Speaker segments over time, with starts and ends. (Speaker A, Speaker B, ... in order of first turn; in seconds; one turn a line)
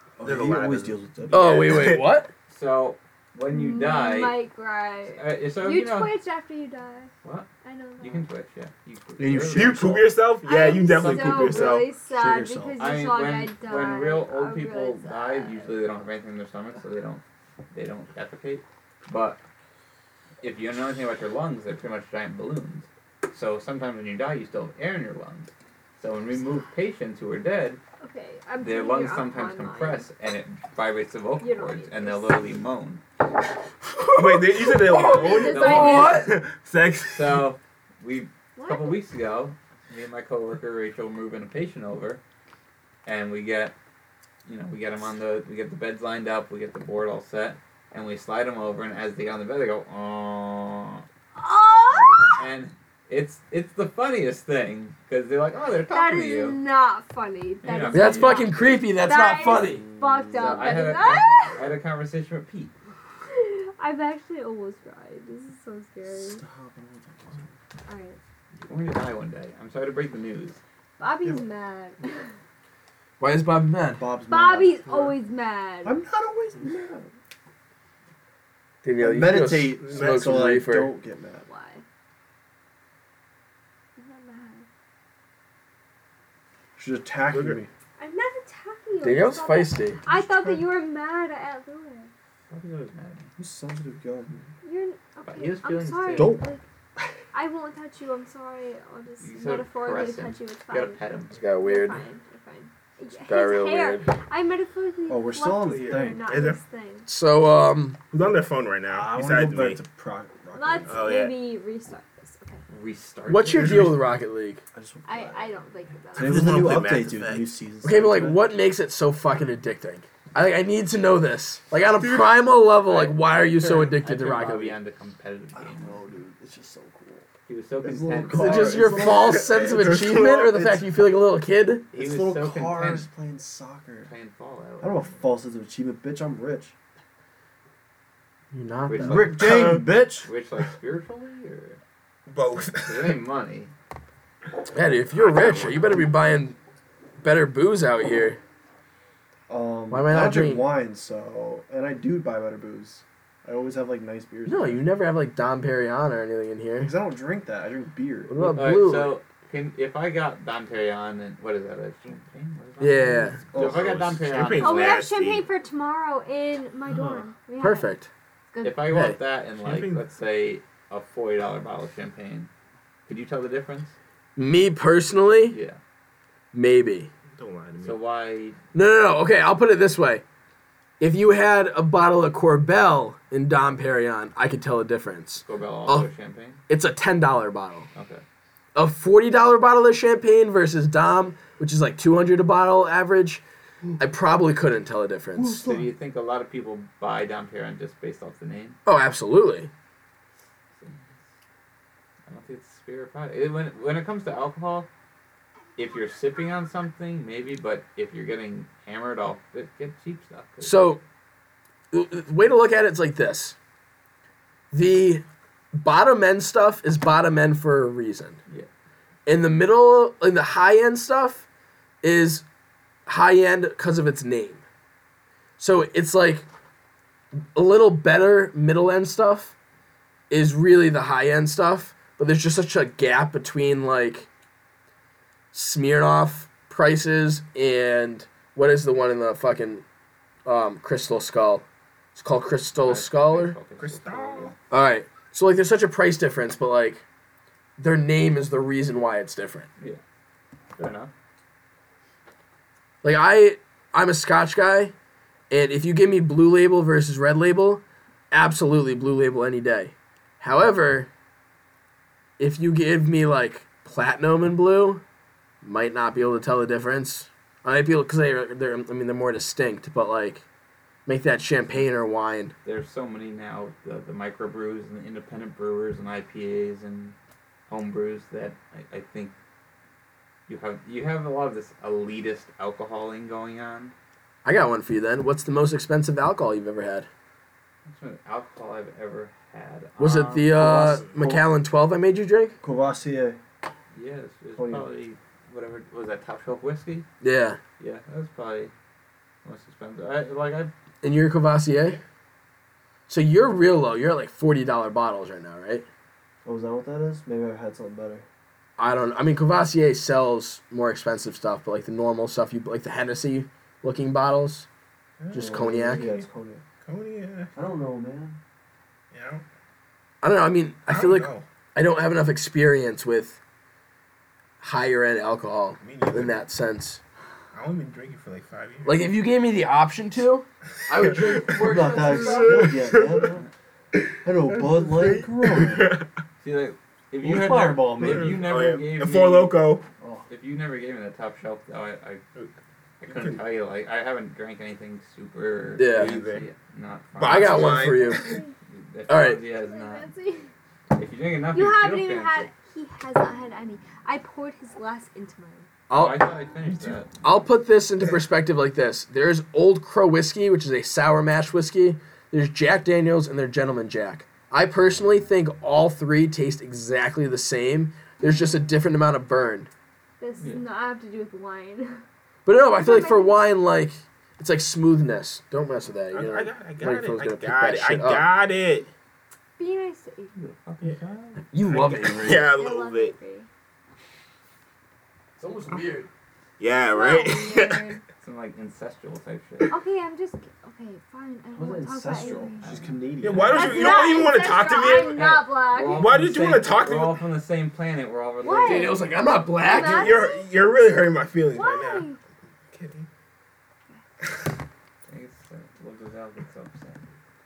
Speaker A: 0.2-1.9
Speaker B: 0.2-2.0
Speaker C: 1.3-2.3
Speaker D: 2.5-4.4
Speaker E: 3.5-7.1
Speaker D: 5.1-6.1
Speaker D: 7.2-7.5
Speaker E: 7.6-8.3
Speaker D: 8.0-9.8
Speaker A: 9.2-10.2
Speaker B: 9.5-11.9
Speaker E: 10.4-15.7
Speaker D: 10.7-11.7
Speaker A: 12.1-12.8
Speaker D: 12.8-19.4
Speaker D: 20.4-27.8
Speaker E: 28.0-30.1
Speaker D: 28.6-33.0
Speaker E: 31.4-32.4
Speaker C: 33.9-36.3
Speaker B: 34.1-37.5
Speaker E: 34.9-36.3
Speaker D: 35.5-36.2
Speaker D: 37.1-42.2
Speaker E: 38.5-39.0
Speaker D: 43.0-43.7
Speaker D: 44.4-51.0
Speaker E: 51.4-52.3
Speaker D: 52.4-56.6
Speaker E: 55.9-61.7
Speaker D: 57.6-58.5
Speaker C: 57.9-59.8
Speaker A: 59.5-60.9
Speaker D: 60.3-62.7
Speaker E: 63.3-66.4
Speaker A: 66.1-67.5
Speaker E: 67.8-68.2
Speaker D: 68.6-70.6
Speaker E: 71.0-72.3
Speaker C: 73.2-74.0
Speaker A: 74.0-75.1
Speaker E: 74.3-76.0
Speaker A: 75.8-77.1
Speaker C: 78.8-80.9
Speaker A: 79.0-81.5
Speaker B: 79.8-80.5
Speaker E: 81.5-81.8
Speaker E: 84.0-84.7
Speaker A: 86.8-87.7
Speaker B: 87.3-87.6
Speaker E: 88.0-92.1
Speaker C: 89.0-90.0
Speaker A: 90.1-90.6
Speaker D: 92.5-93.3
Speaker A: 93.4-94.5
Speaker E: 94.6-96.6
Speaker D: 95.3-96.4
Speaker A: 96.1-96.5
Speaker E: 97.3-101.0
Speaker D: 99.2-101.4
Speaker C: 101.3-102.0
Speaker E: 101.6-107.1
Speaker C: 103.2-104.1
Speaker A: 105.1-106.3
Speaker B: 105.8-106.6
Speaker C: 107.1-108.0
Speaker B: 108.1-109.8
Speaker A: 108.9-111.1
Speaker E: 110.5-112.6
Speaker B: 110.9-111.4
Speaker D: 112.7-114.0
Speaker C: 113.3-114.6
Speaker B: 113.5-114.0
Speaker A: 114.7-115.6
Speaker E: 115.0-116.8
Speaker B: 116.2-117.5
Speaker A: 116.2-118.4
Speaker C: 117.8-124.8
Speaker D: 122.8-126.0
Speaker A: 125.5-127.3
Speaker D: 127.5-129.2
Speaker A: 127.8-130.8
Speaker C: 128.3-131.9
Speaker B: 129.1-130.8
Speaker D: 131.9-133.1
Speaker A: 131.9-134.1
Speaker D: 134.1-135.1
Speaker A: 134.8-136.7
Speaker C: 138.5-139.4
Speaker D: 138.9-141.8
Speaker A: 139.0-140.3
Speaker B: 139.4-139.8
Speaker B: 142.3-143.2
Speaker D: 142.8-143.7
Speaker C: 144.7-146.6
Speaker B: 145.1-146.0
Speaker C: 147.2-148.4
Speaker A: 149.5-154.8
Speaker C: 149.9-150.6
Speaker C: 154.4-156.9
Speaker A: 156.8-158.4
Speaker C: 158.3-159.1
Speaker D: 158.4-165.0
Speaker C: 162.8-163.4
Speaker A: 163.5-163.9
Speaker B: 163.5-165.4
Speaker E: 164.6-167.9
Speaker A: 166.8-167.3
Speaker C: 167.6-168.1
Speaker E: 168.5-168.8
Speaker D: 168.6-172.5
Speaker C: 168.9-169.2
Speaker B: 169.6-170.0
Speaker D: 173.1-173.9
Speaker C: 174.3-175.6
Speaker D: 175.5-175.8
Speaker C: 176.5-177.1
Speaker B: 177.3-178.0
Speaker D: 177.8-178.6
Speaker C: 178.7-180.2
Speaker C: 181.0-186.1
Speaker D: 185.4-186.6
Speaker C: 186.7-187.9
Speaker D: 187.9-188.2
Speaker C: 188.7-193.4
Speaker C: 194.0-195.6
Speaker A: 195.4-195.8
Speaker D: 195.6-198.8
Speaker C: 198.8-199.7
Speaker D: 200.7-201.1
Speaker D: 202.3-204.9
Speaker D: 205.8-210.8
Speaker C: 210.6-211.0
Speaker C: 211.9-213.6
Speaker C: 214.7-218.4
Speaker C: 219.2-221.4
Speaker C: 222.0-222.4
Speaker C: 223.1-224.6
Speaker C: 225.6-226.4
Speaker C: 227.5-229.5
Speaker C: 230.3-234.3
Speaker C: 235.5-239.8
Speaker C: 240.4-241.6
Speaker C: 242.2-243.6
Speaker D: 242.8-244.5
Speaker B: 243.8-244.5
Speaker C: 244.7-247.0
Speaker C: 247.8-249.7
Speaker D: 250.8-251.1
Speaker C: 253.0-254.9
Speaker C: 255.5-261.1
Speaker C: 262.4-265.0
Speaker C: 265.6-270.4
Speaker C: 271.1-272.5
Speaker D: 272.6-277.1
Speaker D: 277.7-279.3
Speaker D: 280.5-283.9
Speaker C: 284.4-287.1
Speaker D: 287.8-290.8
Speaker C: 290.0-292.6
Speaker A: 290.5-291.4
Speaker B: 290.8-291.1
Speaker A: 292.6-293.4
Speaker D: 293.9-297.1
Speaker A: 294.6-294.9
Speaker C: 297.2-297.6
Speaker D: 297.8-298.7
Speaker D: 299.4-300.7
Speaker C: 301.0-302.0
Speaker C: 303.1-305.9
Speaker A: 306.4-308.2
Speaker C: 308.8-314.7
Speaker A: 315.2-316.6
Speaker C: 315.3-316.2
Speaker B: 316.8-317.5
Speaker A: 317.5-318.4
Speaker B: 319.1-319.4
Speaker C: 320.2-323.4
Speaker B: 320.9-321.4
Speaker C: 324.6-327.0
Speaker B: 325.8-326.3
Speaker B: 327.5-329.0
Speaker C: 328.8-332.8
Speaker B: 331.0-333.3
Speaker A: 331.6-333.4
Speaker B: 333.9-336.1
Speaker A: 334.2-336.0
Speaker D: 336.4-339.6
Speaker A: 337.2-338.4
Speaker B: 337.9-339.8
Speaker A: 340.0-340.3
Speaker D: 340.3-342.2
Speaker D: 343.0-348.0
Speaker B: 343.0-343.4
Speaker C: 345.8-346.1
Speaker B: 345.8-346.4
Speaker B: 347.2-348.4
Speaker C: 347.2-348.3
Speaker E: 348.0-348.5
Speaker D: 348.7-350.1
Speaker C: 349.1-349.4
Speaker E: 349.6-350.5
Speaker D: 350.9-352.5
Speaker E: 351.5-355.7
Speaker C: 355.9-356.2
Speaker D: 355.9-357.1
Speaker B: 356.7-357.1
Speaker C: 357.2-369.7
Speaker E: 368.2-368.6
Speaker E: 370.2-372.0
Speaker C: 372.4-378.2
Speaker E: 372.7-373.5
Speaker B: 376.1-378.9
Speaker E: 379.6-380.4
Speaker D: 380.4-381.8
Speaker C: 381.5-382.5
Speaker B: 381.7-383.1
Speaker E: 382.4-383.5
Speaker C: 385.4-386.1
Speaker B: 386.6-387.9
Speaker E: 386.9-388.0
Speaker D: 388.2-389.7
Speaker E: 389.7-392.7
Speaker A: 391.5-393.8
Speaker D: 392.3-393.8
Speaker B: 393.2-397.2
Speaker E: 393.5-396.1
Speaker D: 395.1-399.0
Speaker E: 398.4-399.0
Speaker C: 398.6-400.1
Speaker E: 399.6-400.5
Speaker B: 399.8-402.1
Speaker E: 401.5-402.2
Speaker B: 402.7-403.1
Speaker D: 405.1-407.1